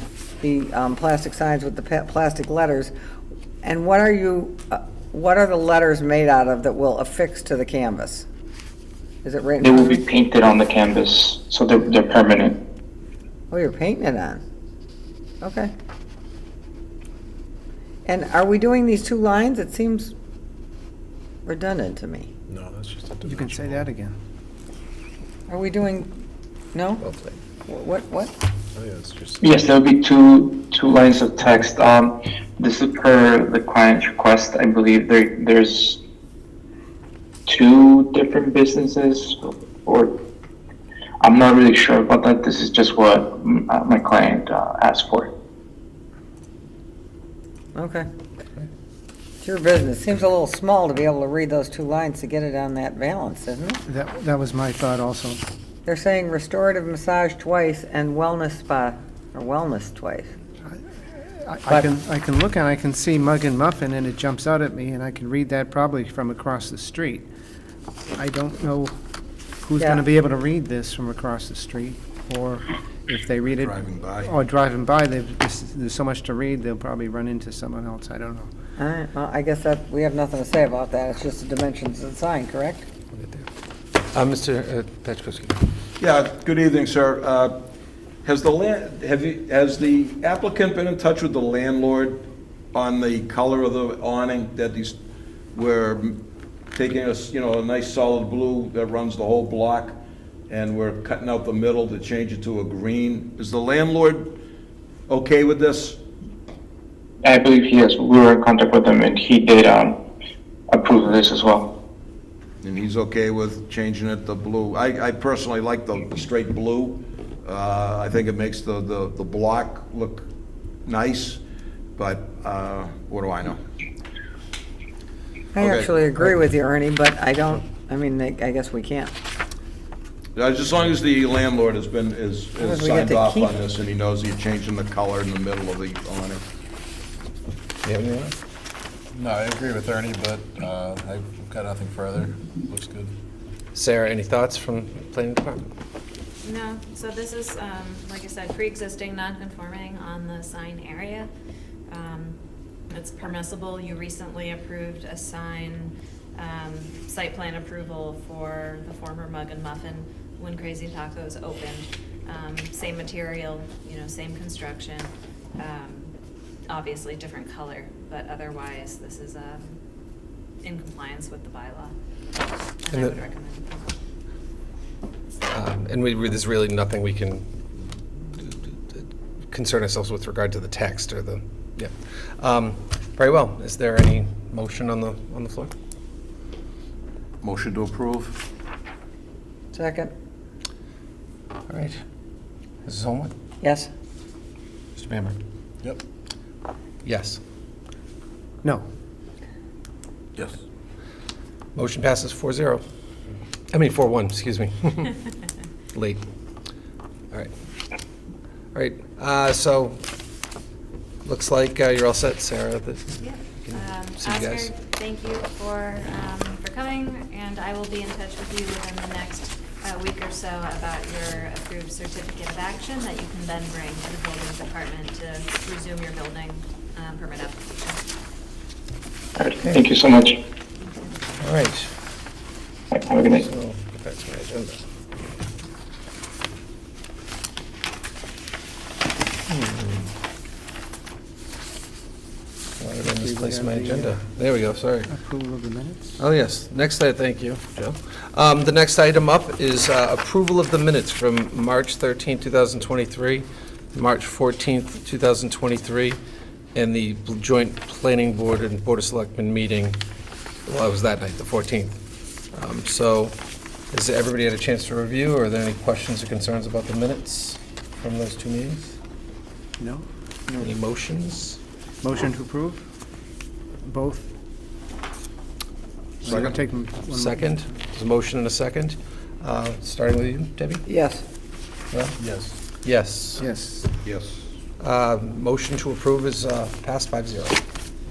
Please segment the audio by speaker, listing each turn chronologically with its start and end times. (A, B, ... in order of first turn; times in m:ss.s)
0:00.4-0:02.9 A
0:03.6-0:08.3 A
0:09.2-0:10.0 A
0:09.6-0:12.6 B
0:13.5-0:14.4 A
0:15.4-0:15.7 A
0:18.0-0:20.1 A
0:21.4-0:22.3 A
0:22.5-0:23.4 C
0:23.2-0:24.1 D
0:25.5-0:26.1 A
0:26.7-0:27.0 A
0:27.6-0:28.4 A
0:28.8-0:29.4 C
0:29.4-0:36.0 B
0:37.5-0:40.1 B
0:41.2-0:45.3 B
0:47.7-0:48.1 A
0:49.4-0:53.8 A
0:53.8-0:55.4 D
0:55.8-1:00.3 A
1:00.7-1:07.2 D
1:08.1-1:08.9 D
1:09.6-1:18.5 D
1:09.8-1:10.0 A
1:13.5-1:14.3 E
1:18.8-1:22.9 A
1:23.1-1:23.5 F
1:24.1-1:25.7 F
1:26.0-1:27.6 E
1:28.2-1:35.0 E
1:35.5-1:36.2 E
1:36.7-1:40.0 E
1:40.5-1:44.4 E
1:45.1-1:46.0 E
1:47.2-1:50.0 B
1:50.7-1:51.7 B
1:52.6-2:00.3 E
2:00.8-2:01.4 E
2:02.0-2:03.6 E
2:05.5-2:09.1 A
2:05.6-2:05.9 E
2:10.4-2:16.4 E
2:12.6-2:13.5 A
2:17.8-2:18.4 F
2:19.2-2:23.0 C
2:23.7-2:25.7 F
2:26.4-2:31.3 G
2:31.9-2:32.4 G
2:32.9-2:46.1 G
2:46.7-2:49.7 G
2:50.6-2:51.9 G
2:52.8-2:54.0 G
2:52.9-2:53.2 F
2:55.5-2:57.4 F
2:58.3-3:05.7 F
3:07.4-3:08.4 E
3:09.7-3:10.1 A
3:11.7-3:12.0 F
3:12.8-3:13.3 F
3:13.6-3:13.9 A
3:15.0-3:15.4 F
3:17.0-3:17.4 F
3:21.7-3:22.8 F
3:23.7-3:25.3 F
3:25.9-3:26.2 F
3:28.7-3:30.0 F
3:31.2-3:34.7 F
3:33.2-3:48.0 G
3:49.4-3:50.4 B
3:51.4-3:51.9 F
3:52.9-3:53.4 B
3:53.1-3:54.8 F
3:59.5-4:00.1 F
4:02.8-4:05.1 F
4:03.0-4:04.2 D
4:05.1-4:06.2 D
4:06.2-4:16.2 F
4:16.7-4:20.0 F
4:20.6-4:22.0 F
4:22.5-4:23.4 F
4:23.9-4:29.0 F
4:29.8-4:30.0 D
4:30.6-4:31.6 F
4:32.0-4:32.8 D
4:33.8-4:34.3 D
4:36.2-4:37.7 D
4:36.2-4:36.6 E
4:37.0-4:40.8 F
4:40.9-4:41.2 A
4:41.9-4:42.2 F
4:42.8-4:43.4 F
4:43.4-4:43.9 D
4:44.0-4:44.5 E
4:44.8-4:47.6 F